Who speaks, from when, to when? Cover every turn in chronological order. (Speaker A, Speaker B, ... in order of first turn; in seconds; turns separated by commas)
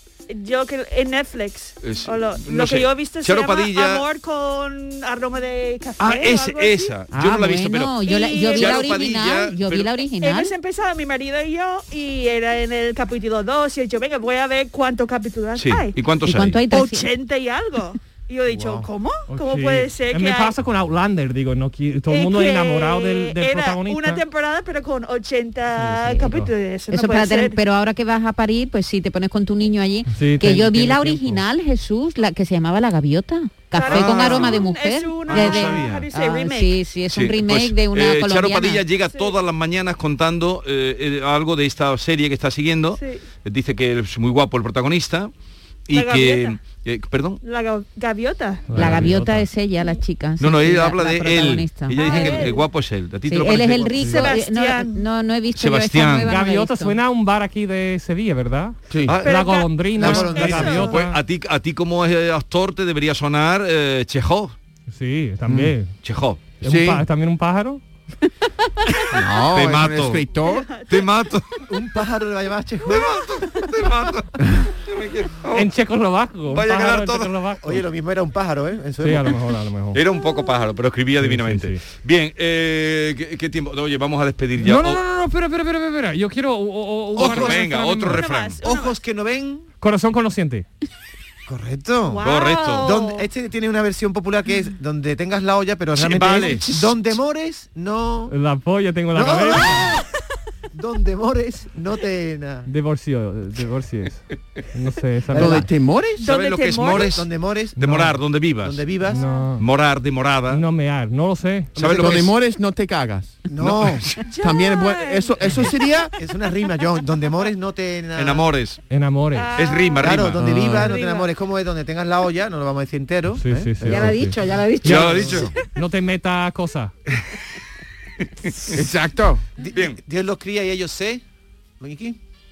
Speaker A: 0.3-6.9, Speaker B: 1.8-4.0, Speaker B: 6.0-9.9, Speaker C: 7.1-10.5, Speaker A: 8.0-9.1, Speaker A: 10.2-15.9, Speaker B: 15.6-16.6, Speaker C: 16.2-17.1, Speaker A: 16.7-20.5, Speaker D: 18.5-18.9, Speaker E: 19.3-24.2, Speaker A: 22.1-27.6, Speaker E: 25.8-26.5, Speaker C: 26.9-38.8, Speaker E: 30.1-31.4, Speaker A: 33.7-36.8, Speaker B: 33.8-34.7, Speaker B: 35.3-36.0, Speaker B: 37.1-45.3, Speaker A: 39.0-39.4, Speaker A: 42.9-43.2, Speaker B: 45.9-47.4, Speaker A: 45.9-46.6, Speaker A: 47.4-48.8, Speaker E: 48.7-49.5, Speaker C: 48.7-52.6, Speaker B: 50.4-54.3, Speaker A: 51.9-52.6, Speaker C: 53.2-57.0, Speaker D: 53.6-54.1, Speaker A: 54.0-55.0, Speaker B: 55.5-56.3, Speaker E: 56.3-61.2, Speaker F: 58.9-59.2, Speaker A: 59.2-60.9, Speaker D: 60.0-60.9, Speaker B: 60.0-64.5, Speaker E: 64.9-65.9, Speaker F: 65.5-65.7, Speaker B: 66.0-66.4, Speaker E: 66.6-67.8, Speaker F: 66.6-67.0, Speaker F: 69.1-70.7, Speaker B: 69.5-70.2, Speaker A: 70.4-71.2, Speaker B: 70.9-71.6, Speaker D: 71.7-73.3, Speaker B: 72.9-74.3, Speaker B: 74.8-75.7, Speaker E: 75.5-77.8, Speaker B: 76.5-77.3, Speaker D: 77.6-79.3, Speaker E: 79.0-80.0, Speaker B: 79.9-85.0, Speaker E: 81.2-81.8, Speaker E: 84.6-88.2, Speaker B: 87.2-88.6, Speaker D: 87.2-87.6, Speaker A: 88.0-88.9, Speaker D: 88.6-89.7, Speaker E: 89.8-90.7, Speaker D: 91.5-92.3, Speaker A: 92.1-93.2, Speaker B: 92.2-92.9, Speaker D: 92.8-98.3, Speaker B: 96.0-96.9, Speaker E: 98.3-99.9, Speaker D: 99.1-100.0, Speaker D: 100.7-102.7, Speaker E: 102.7-105.7, Speaker D: 105.3-105.7, Speaker F: 105.3-106.2, Speaker A: 106.2-107.2, Speaker B: 106.2-108.8, Speaker D: 106.9-109.2, Speaker E: 109.1-109.6, Speaker A: 109.2-109.4, Speaker B: 109.6-110.6, Speaker E: 110.5-111.8, Speaker B: 111.8-112.3, Speaker F: 111.8-113.4, Speaker D: 113.5-114.1, Speaker B: 113.6-114.2, Speaker A: 114.2-116.0, Speaker F: 114.4-116.1, Speaker D: 116.2-118.5, Speaker B: 118.2-118.8, Speaker E: 118.9-119.5, Speaker A: 119.3-120.2, Speaker B: 119.5-120.4, Speaker D: 120.0-124.2, Speaker F: 120.4-120.9, Speaker A: 120.7-121.3, Speaker E: 123.3-126.9, Speaker C: 123.8-125.1, Speaker B: 124.8-125.5, Speaker D: 125.0-125.5, Speaker B: 128.4-128.8, Speaker F: 128.7-129.4, Speaker D: 129.6-131.2, Speaker D: 131.8-132.2